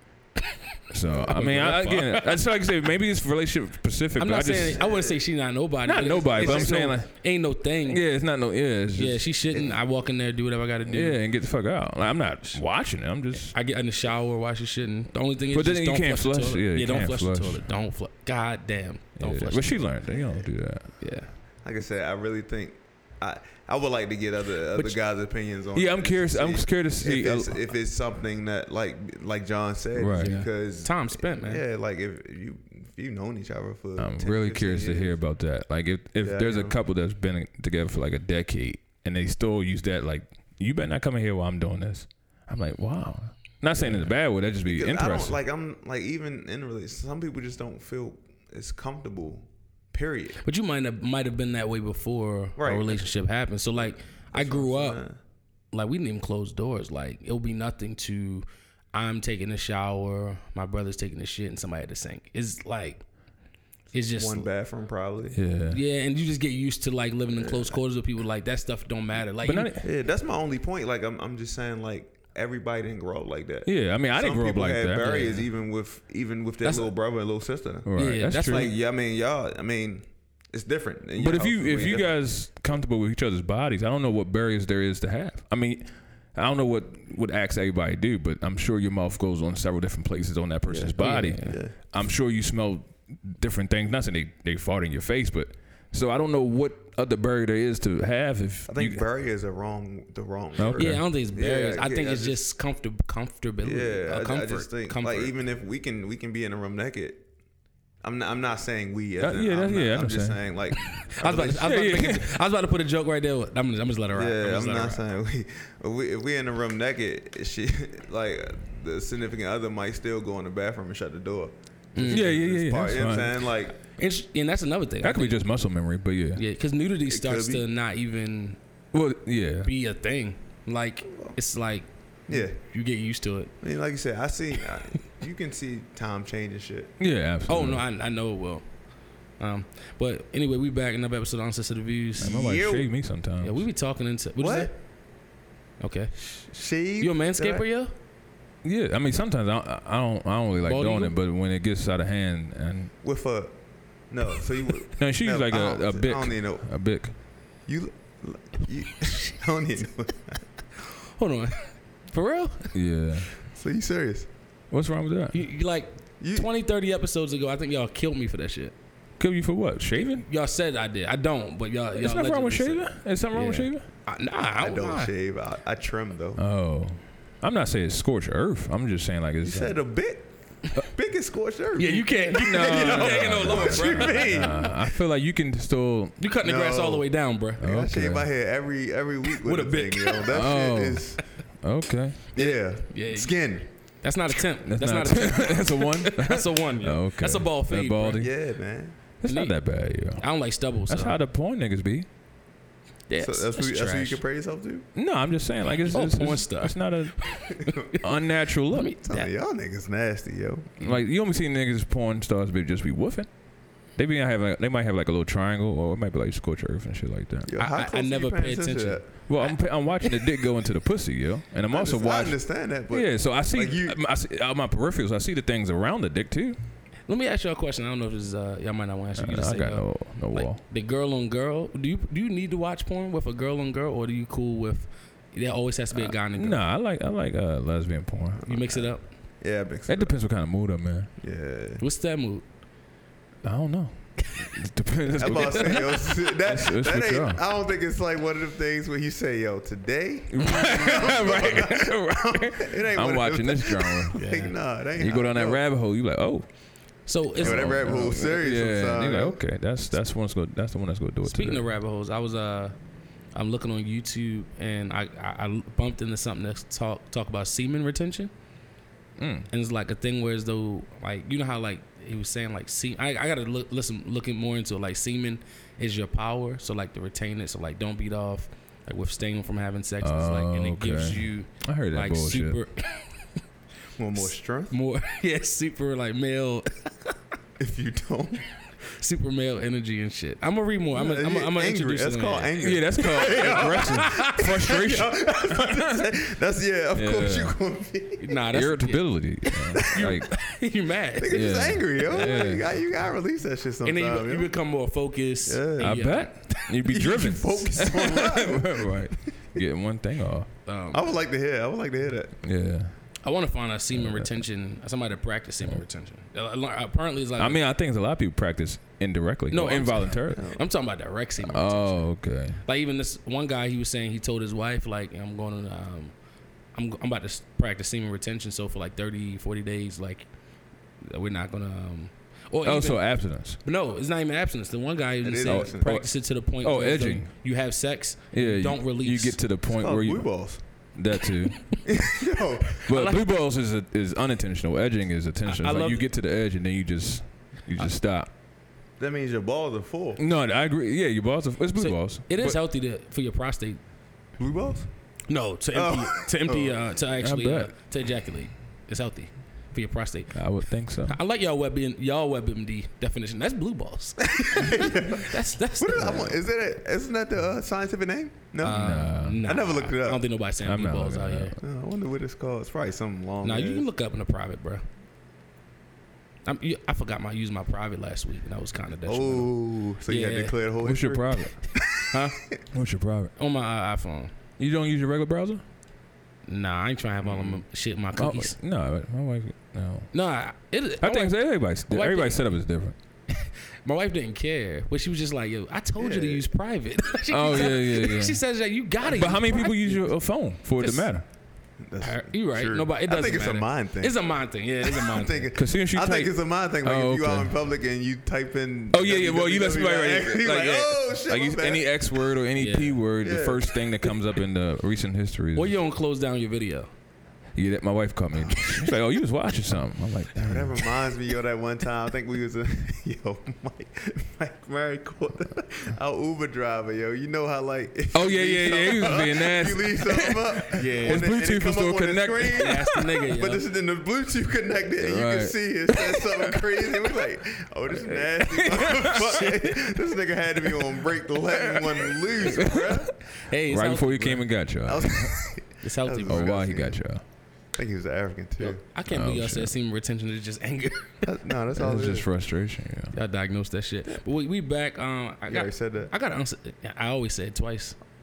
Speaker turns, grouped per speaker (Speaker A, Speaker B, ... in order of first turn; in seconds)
Speaker A: 0.9-4.8, 5.8-9.3, 10.9-13.6, 15.5-17.7, 19.2-20.9, 25.7-27.6, 29.9-30.4, 34.0-45.4, 65.3-65.8, 69.4-69.8, 73.7-75.4, 77.9-78.7, 81.2-99.0, 100.6-101.1, 109.2-110.5, 111.5-112.3, 122.1-123.4, 125.0-126.4, 128.9-129.7, 137.0-137.8, 142.2-143.6, 148.6-152.9, 155.0-157.1, 162.7-163.3, 164.7-165.4, 169.2-170.3, 172.0-173.9, 176.4-179.8, 182.3-186.2, 187.6-188.3, 190.3-192.2, 194.6-198.3, 199.2-200.3, 200.9-202.1, 204.9-208.9, 210.8-213.3, 213.9-217.5, 219.3-226.6, 229.2-230.6, 235.9-238.5, 239.9-241.1, 243.4-247.4, 250.3-254.2, 255.0-256.5, 257.4-261.6, 269.2-269.5, 280.0-282.6, 292.6-296.0, 296.9-297.6, 298.5-300.3, 301.3-302.7, 305.8-310.5, 312.4-312.9, 313.9-314.3, 317.4-320.4, 321.4-322.6, 332.6-333.6, 335.5-337.3, 338.3-341.8, 342.9-348.3, 350.2-352.6, 357.2-357.7, 360.3-361.2, 368.7-369.4, 370.6-371.6, 380.8-381.6, 382.7-383.3, 384.6-385.6, 388.2-390.1, 391.0-393.0, 397.3-398.4, 399.0-401.2, 405.6-407.5, 408.9-415.8, 417.6-420.8, 428.1-433.0, 435.0-437.0, 438.7-439.2, 441.8-443.0, 443.7-445.4, 446.3-447.2, 449.1-449.7, 451.8-453.1
Speaker B: 1.2-2.5, 4.2-8.0, 8.9-11.2, 13.4-19.9, 21.0-21.3, 30.2-31.6, 43.8-44.1, 50.4-55.0, 55.7-63.0, 63.9-64.5, 65.7-69.8, 78.0-78.7, 91.0-91.6, 100.8-105.3, 111.0-115.0, 122.0-122.4, 123.9-125.4, 126.4-128.6, 129.6-133.6, 137.5-138.7, 139.4-142.5, 143.4-144.7, 145.8-146.2, 147.0-147.9, 150.6-151.2, 160.8-162.7, 165.3-168.7, 170.2-175.1, 181.8-184.8, 186.2-187.7, 189.4-190.4, 192.4-198.3, 199.3-199.6, 200.2-201.2, 203.1-204.2, 205.9-208.0, 208.7-209.3, 217.6-220.3, 227.1-236.6, 238.5-239.1, 241.8-242.4, 245.2-245.7, 250.4-251.0, 254.1-254.6, 257.1-258.2, 261.2-262.8, 263.4-268.3, 269.5-283.3, 284.2-287.1, 289.0-294.4, 298.2-302.6, 303.8-306.7, 310.7-311.1, 313.2-317.6, 319.5-322.1, 322.6-326.1, 326.7-330.3, 331.0-339.4, 342.8-343.3, 345.5-346.1, 351.8-353.8, 355.3-360.5, 361.1-366.4, 368.6-371.6, 373.4-374.8, 376.5-379.5, 380.1-380.6, 382.1-382.4, 383.4-384.3, 386.5-388.6, 390.1-392.4, 393.3-401.1, 402.0-405.5, 412.6-413.0, 415.6-416.9, 430.7-431.3, 432.5-433.6, 438.0-439.9, 443.4-444.5, 445.8-446.6, 448.6-451.3, 453.1-458.0
Speaker C: 4.8-5.2, 6.3-6.8, 21.6-35.2, 36.2-36.8, 44.6-50.4, 52.6-53.1, 53.8-55.2, 64.2-65.4, 67.3-67.8, 69.8-82.2, 90.7-91.8, 98.7-102.4, 103.6-107.3, 108.0-111.8, 114.1-123.8, 127.1-127.7, 132.3-132.6, 133.6-136.9, 142.2-142.9, 144.4-144.7, 146.2-147.6, 153.0-153.6, 154.1-156.7, 157.7-160.4, 163.5-164.3, 166.2-166.5, 174.6-176.4, 179.4-184.7, 186.4-187.1, 187.6-191.2, 192.3-193.7, 198.2-199.0, 203.2-204.9, 209.0-210.7, 217.5-219.1, 221.7-224.0, 238.4-240.2, 241.2-241.8, 245.2-255.6, 257.4-259.4, 284.0-284.7, 287.6-288.5, 290.9-298.2, 301.2-304.5, 305.5-306.0, 306.9-309.6, 310.9-312.4, 320.3-320.6, 335.2-335.9, 339.7-340.6, 341.9-342.8, 349.0-350.2, 354.4-354.9, 355.7-356.8, 364.5-368.9, 369.4-370.3, 371.6-373.9, 379.1-382.6, 396.0-396.4, 401.8-404.2, 404.8-411.9, 413.2-413.6, 420.4-443.1, 444.9-447.0, 447.7-448.8, 451.2-452.3, 455.5-456.1